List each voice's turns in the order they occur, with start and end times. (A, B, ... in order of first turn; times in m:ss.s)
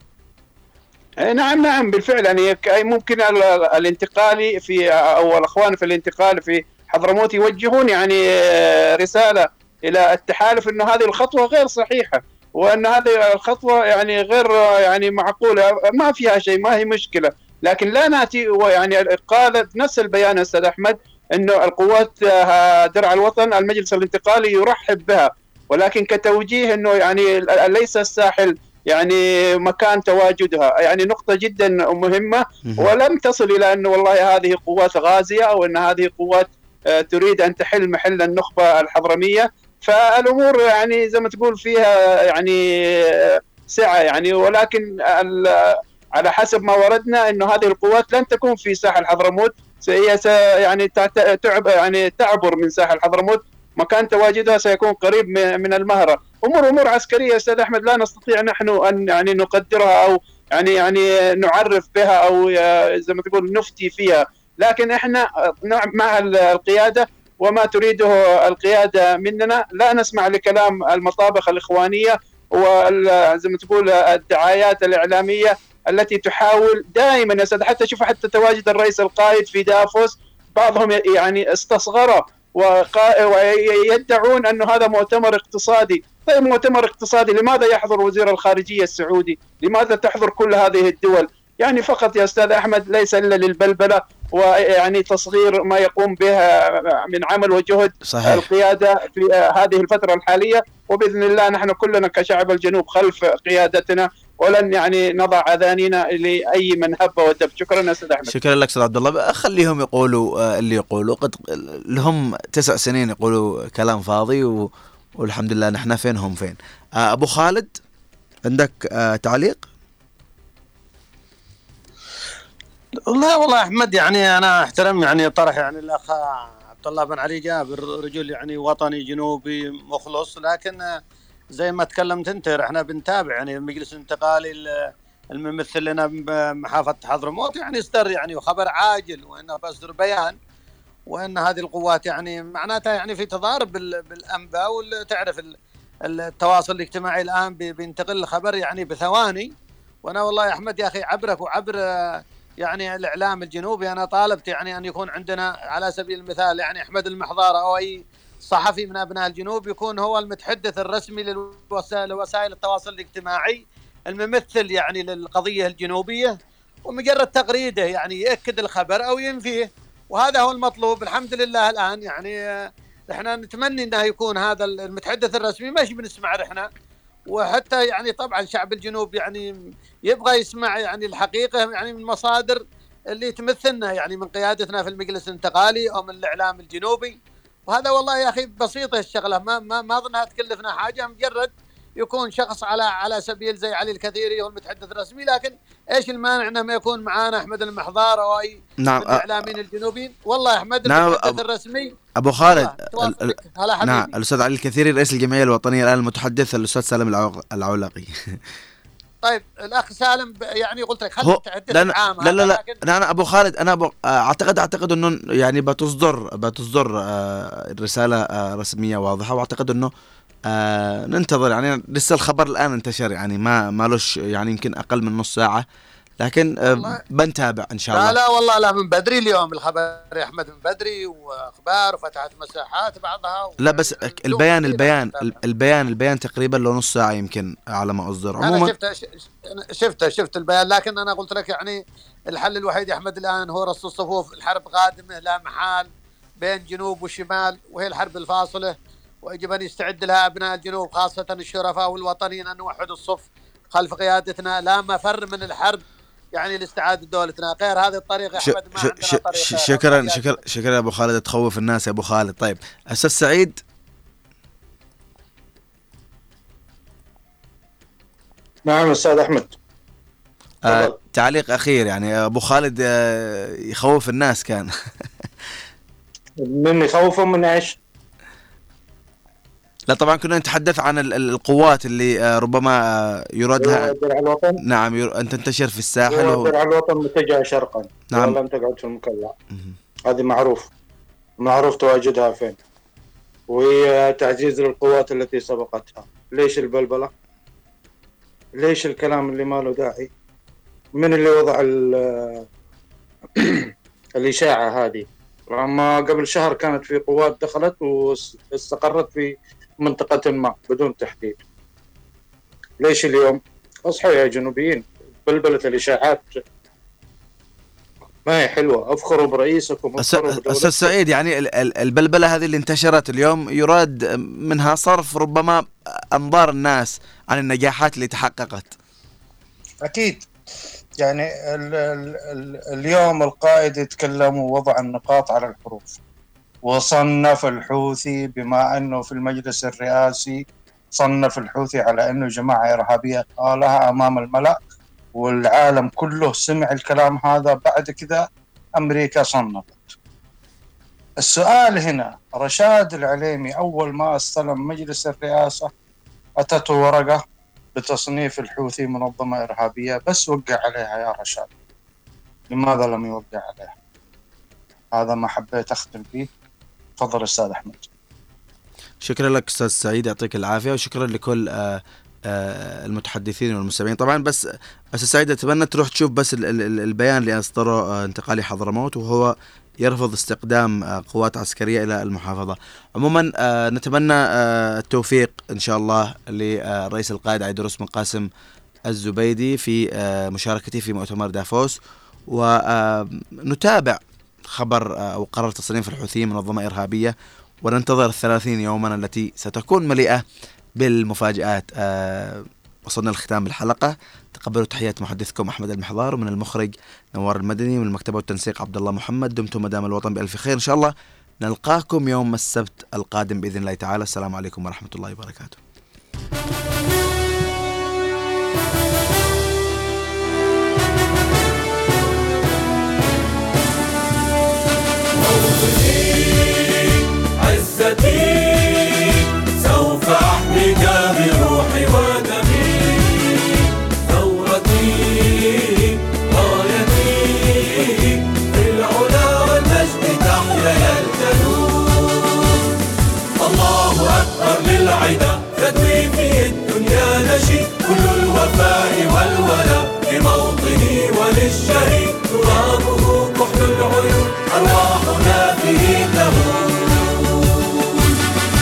0:01.2-0:36.5 A
0:37.0-0:42.6 A
0:43.2-1:36.4 A
1:37.1-1:48.3 A
1:38.1-1:38.4 B
1:48.3-1:57.8 B
1:58.4-1:59.6 B
2:03.1-2:10.9 C
2:11.6-2:20.4 C
2:21.1-2:25.5 C
2:26.1-2:29.5 C
2:30.0-2:46.3 C
2:46.8-2:52.4 C
2:53.1-2:56.7 C
2:57.3-2:59.5 C
3:00.1-3:02.6 C
3:03.1-3:07.1 C
3:07.7-3:24.1 C
3:18.8-3:19.5 B
3:20.8-3:21.4 B
3:22.2-3:23.3 B
3:23.8-3:28.4 B
3:29.2-3:32.8 C
3:31.2-3:39.9 B
3:40.5-3:45.6 B
3:46.2-3:48.2 B
3:46.6-3:47.0 C
3:47.9-3:55.4 C
3:53.6-3:58.7 B
3:58.4-4:01.8 C
4:02.3-4:05.9 C
4:06.4-4:15.8 C
4:16.3-4:20.4 C
4:18.4-4:23.6 B
4:28.7-4:29.5 D
4:30.6-4:34.7 B
4:30.7-4:30.9 D
4:36.4-4:37.8 D
4:39.9-4:43.9 B
4:43.6-4:44.6 D
4:44.6-4:46.5 B
4:46.0-4:49.3 D
4:48.1-4:48.4 B
4:50.1-4:50.7 D
4:51.4-4:52.6 D
4:53.5-4:57.1 D
4:58.6-5:00.1 D
5:01.0-5:02.4 D
5:03.4-5:09.3 D
5:09.8-5:11.4 D
5:12.8-5:16.4 D
5:18.2-5:20.9 D
5:20.0-5:28.7 B
5:29.8-5:30.2 D
5:31.0-5:36.0 D
5:36.6-5:40.4 D
5:41.0-5:44.6 D
5:45.2-5:48.2 D
5:48.8-5:50.0 D
5:51.2-5:55.7 D
5:56.4-5:57.2 D
5:57.7-6:01.5 D
6:02.5-6:03.7 D
6:04.9-6:06.3 D
6:07.0-6:07.9 D
6:09.0-6:14.4 B
6:14.9-6:28.3 B
6:28.9-6:31.8 B
6:32.3-6:34.0 B
6:34.5-6:40.2 B
6:40.8-6:55.6 B
7:05.2-7:22.7 E
7:23.4-7:38.2 E